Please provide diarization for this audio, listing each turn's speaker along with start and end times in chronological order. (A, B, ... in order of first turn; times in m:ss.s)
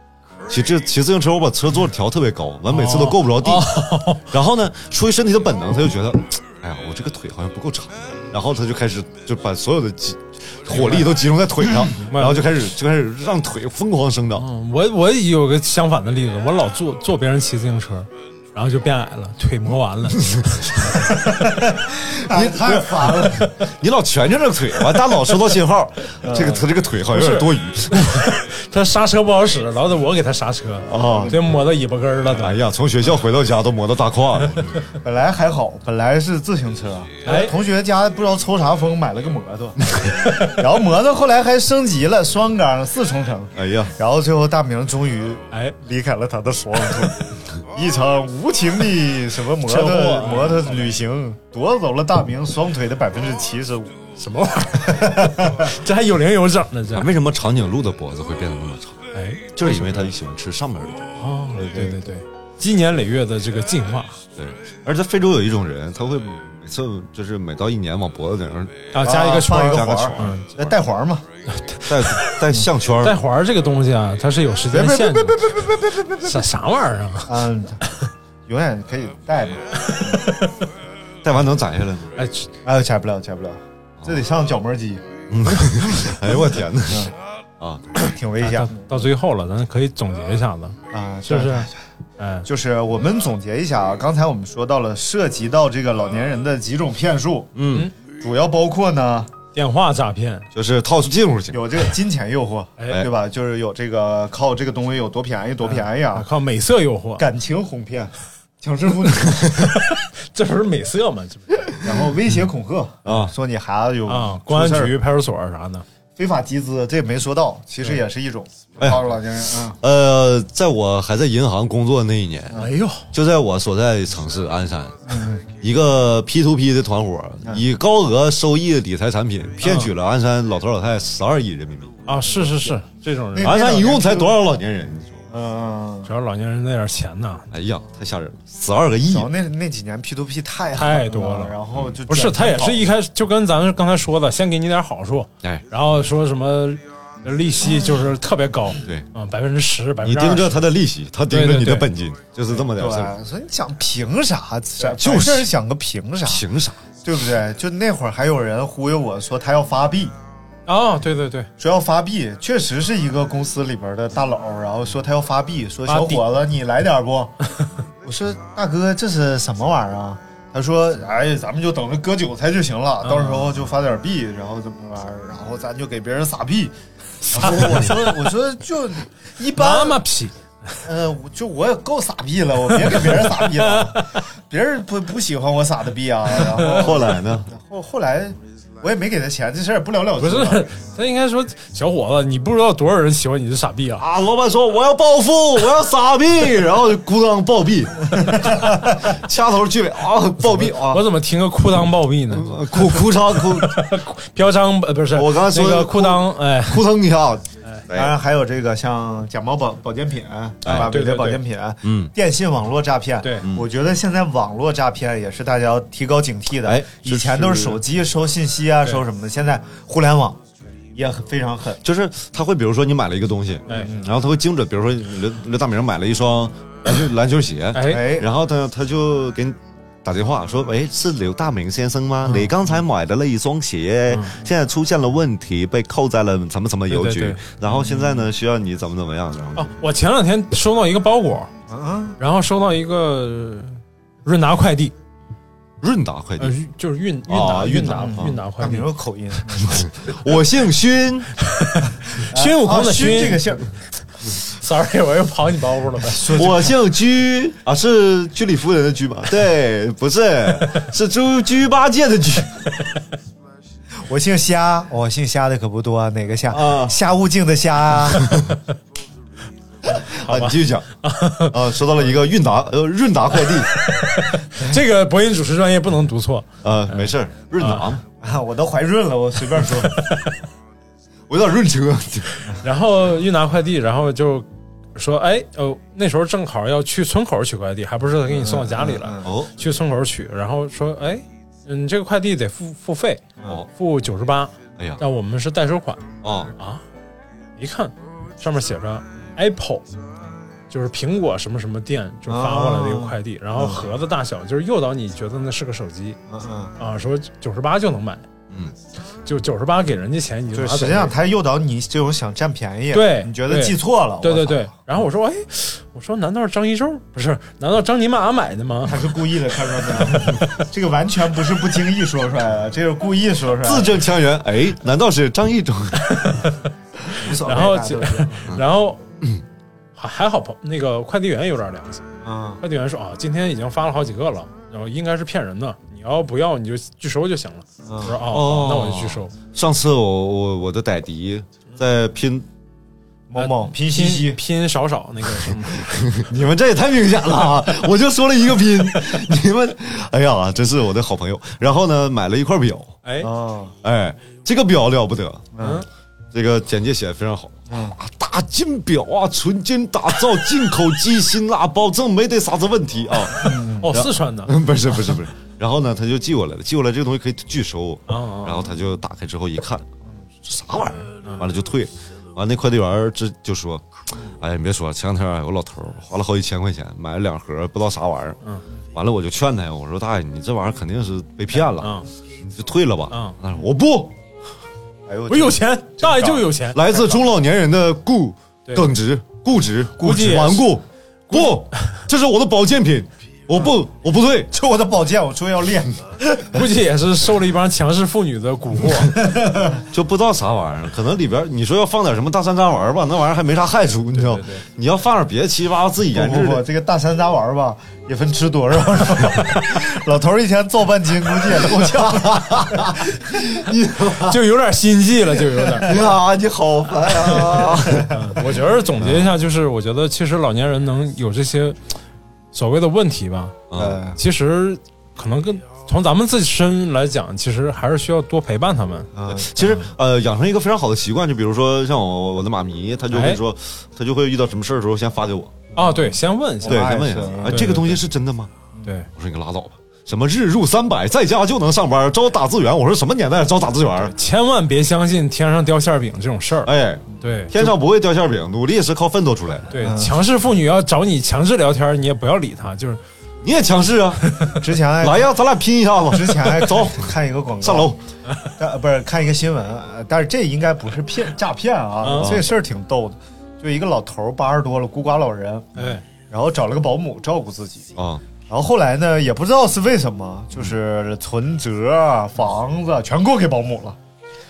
0:00.5-0:14.5 A
0:02.7-0:04.3 B
0:10.7-0:11.1 B
0:11.9-0:12.5 B
0:14.3-0:21.3 B
0:21.4-0:23.5 C
0:22.2-0:28.2 A
0:23.0-0:23.5 B
0:26.2-0:26.7 C
0:27.1-0:32.6 B
0:30.9-0:31.4 A
0:30.9-0:31.4 C
0:32.3-0:34.8 A
0:35.0-0:53.9 C
0:37.2-0:37.5 B
0:40.2-0:40.6 B
0:43.6-0:43.9 A
0:49.6-0:51.0 B
0:54.2-0:57.1 B
0:54.8-0:55.6 C
0:56.9-0:59.0 A
0:59.1-1:00.1 B
0:59.5-1:01.1 A
1:01.2-1:04.2 B
1:01.6-1:02.0 C
1:04.4-1:08.9 A
1:08.9-1:10.5 B
1:09.0-1:11.2 C
1:09.5-1:10.4 A
1:11.5-1:12.4 B
1:11.9-1:13.2 A
1:13.0-1:18.1 B
1:14.7-1:16.4 C
1:17.3-1:17.8 C
1:18.5-1:20.2 C
1:19.8-1:20.6 B
1:21.2-1:22.1 A
1:22.2-1:22.5 B
1:22.6-1:25.0 C
1:25.3-1:28.0 A
1:25.5-1:27.1 C
1:28.0-1:28.9 C
1:28.4-1:32.5 B
1:30.9-1:31.7 C
1:32.4-1:39.3 C
1:37.5-1:37.9 A
1:39.5-1:40.5 B
1:40.5-1:41.8 A
1:41.5-1:46.3 C
1:45.6-1:47.2 B
1:47.2-1:49.7 C
1:49.9-1:51.8 B
1:51.8-1:54.9 C
1:53.0-1:53.3 A
1:54.1-1:55.8 B
1:56.2-1:59.8 C
1:58.8-1:59.0 A
1:59.8-2:12.0 A
2:02.5-2:03.1 B
2:05.1-2:05.4 C
2:09.6-2:09.9 B
2:12.0-2:13.7 B
2:13.3-2:14.3 C
2:13.4-2:15.3 A
2:15.3-2:16.1 C
2:16.0-2:17.5 B
2:17.5-2:19.3 A
2:19.1-2:22.9 C
2:20.7-2:21.6 B
2:21.7-2:22.0 A
2:22.1-2:30.6 B
2:30.0-2:33.1 A
2:31.3-2:31.9 B
2:32.6-2:36.4 C
2:35.0-2:35.5 A
2:36.2-2:36.8 A
2:37.0-2:40.1 C
2:40.7-2:41.5 B
2:41.6-2:47.4 C
2:45.9-2:46.2 B
2:48.0-2:56.7 C
2:53.0-2:53.4 B
2:57.3-3:00.0 C
2:57.3-2:57.7 B
2:57.4-2:57.7 A
2:59.5-3:00.3 B
3:00.8-3:10.7 C
3:02.8-3:04.1 B
3:06.4-3:06.8 B
3:06.6-3:07.5 A
3:10.2-3:14.0 B
3:14.0-3:21.0 A
3:18.3-3:19.0 C
3:20.8-3:26.9 B
3:22.3-3:23.8 A
3:25.1-3:28.2 A
3:27.9-3:40.4 C
3:30.6-3:30.9 A
3:30.6-3:31.4 B
3:31.8-3:32.1 A
3:33.2-3:33.5 B
3:36.6-3:37.8 A
3:40.9-3:41.8 C
3:41.8-3:59.7 A
3:43.7-3:44.2 C
3:47.7-3:48.0 B
3:47.8-3:48.3 C
3:52.2-3:52.5 B
3:54.1-3:54.4 B
3:56.9-3:57.4 B
3:57.7-3:58.2 C
3:59.6-4:01.5 B
4:01.7-4:02.2 C
4:02.2-4:04.9 B
4:05.8-4:06.5 A
4:06.4-4:08.9 B
4:07.3-4:08.4 A
4:07.9-4:09.9 C
4:09.6-4:11.3 A
4:11.4-4:13.6 B
4:12.3-4:13.7 C
4:14.3-4:16.5 B
4:16.1-4:16.7 C
4:16.3-4:22.6 A
4:24.1-4:28.4 C
4:26.5-4:27.0 A
4:29.9-4:30.9 A
4:30.1-4:31.7 B
4:31.5-4:33.7 A
4:33.7-4:37.9 B
4:36.6-4:38.0 A
4:38.2-4:40.0 C
4:39.6-4:40.3 B
4:41.3-4:42.5 A
4:42.6-4:56.0 B
4:48.3-4:49.3 C
4:49.2-4:49.5 A
4:56.2-4:56.5 A
4:56.6-4:56.8 B
4:57.6-4:59.8 B
5:00.7-5:06.2 B
5:02.3-5:03.8 C
5:06.3-5:06.7 C
5:06.8-5:08.2 B
5:09.2-5:11.1 B
5:10.5-5:14.7 C
5:12.9-5:19.1 B
5:18.8-5:24.0 C
5:23.6-5:26.4 A
5:26.0-5:29.0 B
5:27.1-5:28.5 C
5:30.0-5:32.0 B
5:32.2-5:32.6 C
5:32.6-5:39.3 B
5:37.8-5:38.2 C
5:38.2-5:42.5 A
5:43.3-5:44.4 C
5:43.4-5:46.1 B
5:45.5-5:53.0 A
5:53.0-5:53.3 B
5:53.2-5:53.7 C
5:53.8-5:55.5 A
5:55.6-5:55.8 C
5:55.6-5:55.9 B
5:56.3-6:09.9 A
5:57.7-5:58.0 C
6:03.4-6:03.9 C
6:03.6-6:04.6 B
6:08.1-6:08.7 B
6:10.4-6:13.9 A
6:14.4-6:18.4 A
6:18.9-6:24.1 A
6:21.6-6:22.1 B
6:23.1-6:23.4 B
6:25.1-6:26.5 C
6:25.3-6:27.2 B
6:26.7-6:34.5 A
6:30.0-6:30.7 B
6:31.3-6:32.0 B
6:34.5-6:36.6 C
6:36.5-6:39.3 B
6:39.2-6:39.8 C
6:39.9-6:46.6 A
6:44.1-6:44.6 B
6:46.1-6:53.4 C
6:51.8-6:54.4 A
6:54.2-6:56.0 B
6:55.8-6:58.2 A
6:57.2-6:58.1 C
6:57.2-7:01.8 B
6:59.0-6:59.3 A
7:02.5-7:03.6 B
7:03.7-7:04.0 A
7:03.7-7:04.2 C
7:04.2-7:09.1 B
7:09.2-7:09.9 C
7:09.3-7:15.6 A
7:13.1-7:13.4 B
7:15.7-7:18.0 B
7:16.6-7:17.9 C
7:16.6-7:18.5 A
7:19.1-7:24.1 A
7:24.0-7:27.6 B
7:26.6-7:29.8 A
7:29.7-7:33.0 B
7:29.8-7:30.2 C
7:33.4-7:34.2 A
7:34.2-7:34.6 B
7:34.5-7:35.3 C
7:35.0-7:38.0 A
7:36.1-7:38.0 C
7:38.6-7:47.9 C
7:42.0-7:42.4 B
7:42.1-7:42.5 A
7:45.8-7:46.0 B
7:48.0-7:48.2 A
7:48.5-7:54.0 C